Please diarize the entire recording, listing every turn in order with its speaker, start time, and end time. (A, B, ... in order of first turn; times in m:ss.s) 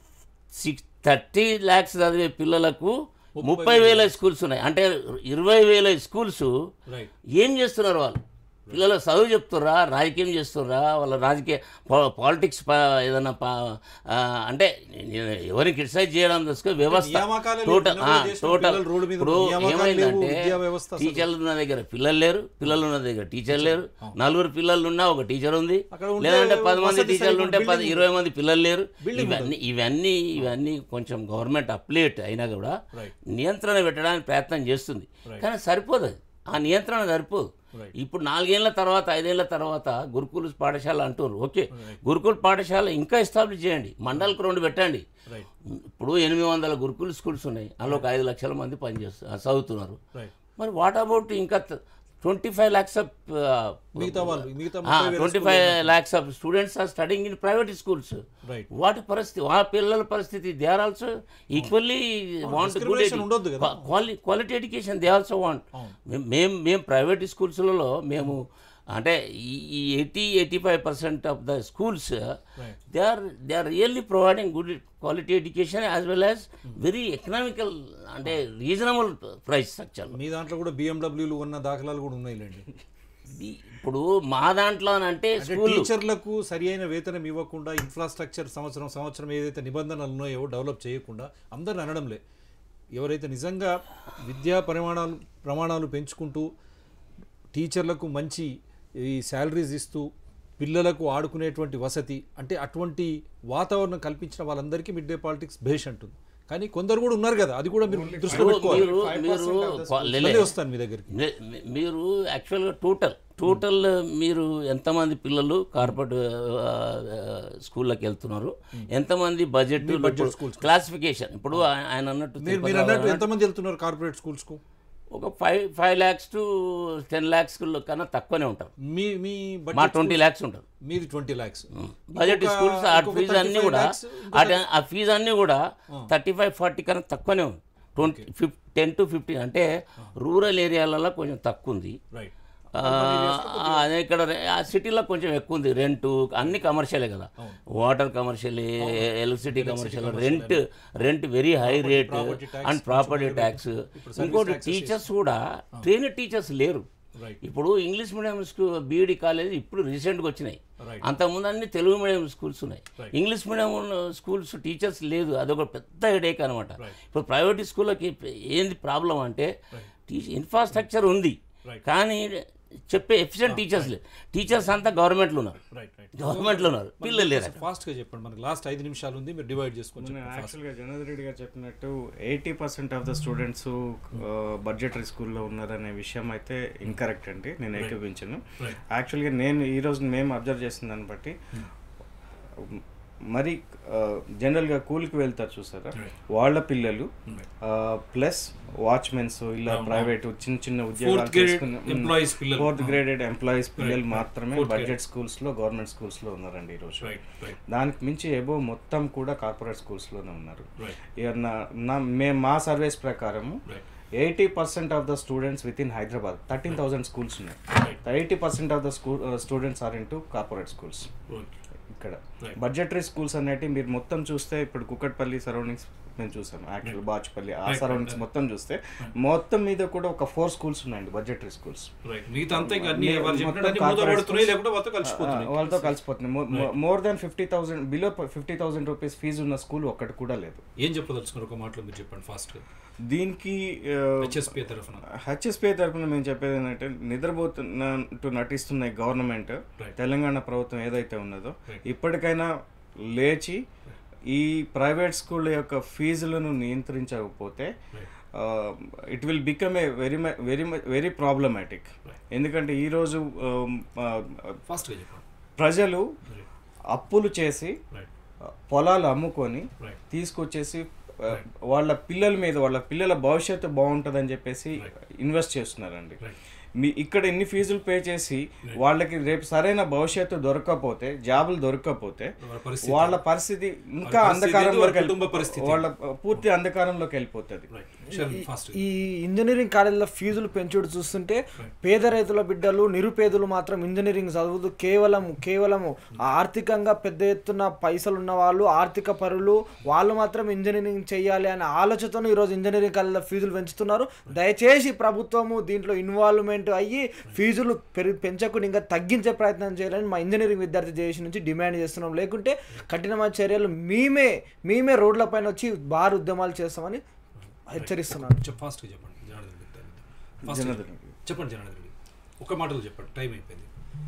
0:00.5-0:06.5 A
0:03.4-0:04.1 B
0:07.3-0:45.0 A
0:16.8-0:21.3 B
0:23.5-0:24.2 B
0:25.9-0:28.1 B
0:29.0-0:29.5 B
0:41.7-0:42.0 B
0:45.7-0:50.0 A
0:50.6-1:12.4 A
0:54.0-0:55.9 B
1:02.4-1:03.8 B
1:12.9-1:20.2 A
1:20.1-1:22.7 B
1:23.3-1:25.9 A
1:25.4-1:32.2 B
1:32.9-1:36.5 B
1:37.5-1:40.1 B
1:40.6-1:48.9 B
1:47.9-1:50.4 C
1:48.3-1:50.6 A
1:50.2-1:51.1 B
1:51.1-2:03.2 A
1:59.8-2:00.7 B
2:02.4-2:04.6 B
2:05.1-2:08.7 A
2:08.8-2:10.2 B
2:09.7-2:10.6 A
2:10.8-2:14.6 B
2:11.8-2:22.0 A
2:18.0-2:18.3 B
2:22.1-2:23.8 B
2:22.8-2:36.9 A
2:28.8-2:30.6 B
2:31.6-2:35.1 B
2:37.1-2:37.4 B
2:37.4-2:49.5 A
2:40.8-2:41.1 B
2:50.1-2:52.4 A
2:52.9-2:55.6 A
2:53.4-2:53.9 B
2:55.7-3:00.6 B
2:56.2-2:57.6 A
3:00.0-3:11.4 C
3:12.6-3:17.1 C
3:17.6-3:33.6 C
3:19.7-3:20.1 B
3:20.9-3:23.0 B
3:23.8-3:25.0 B
3:27.0-3:27.6 B
3:34.2-3:41.1 C
3:37.7-3:38.0 B
3:41.3-3:41.6 B
3:41.9-3:51.9 C
3:47.6-3:48.2 B
3:52.0-3:56.0 B
3:52.5-4:00.6 C
4:00.8-4:02.6 B
4:03.1-4:04.5 C
4:04.2-4:05.0 B
4:05.1-4:13.6 C
4:14.3-4:17.7 C
4:18.3-4:24.6 C
4:24.7-4:25.2 B
4:25.6-4:26.1 C
4:26.9-4:27.8 C
4:28.7-4:36.2 C
4:36.8-4:47.7 C
4:42.4-4:43.2 B
4:44.0-4:46.5 B
4:47.7-4:48.8 B
4:48.1-5:17.0 D
5:17.7-5:18.4 D
5:17.7-5:23.7 B
5:20.4-5:21.1 C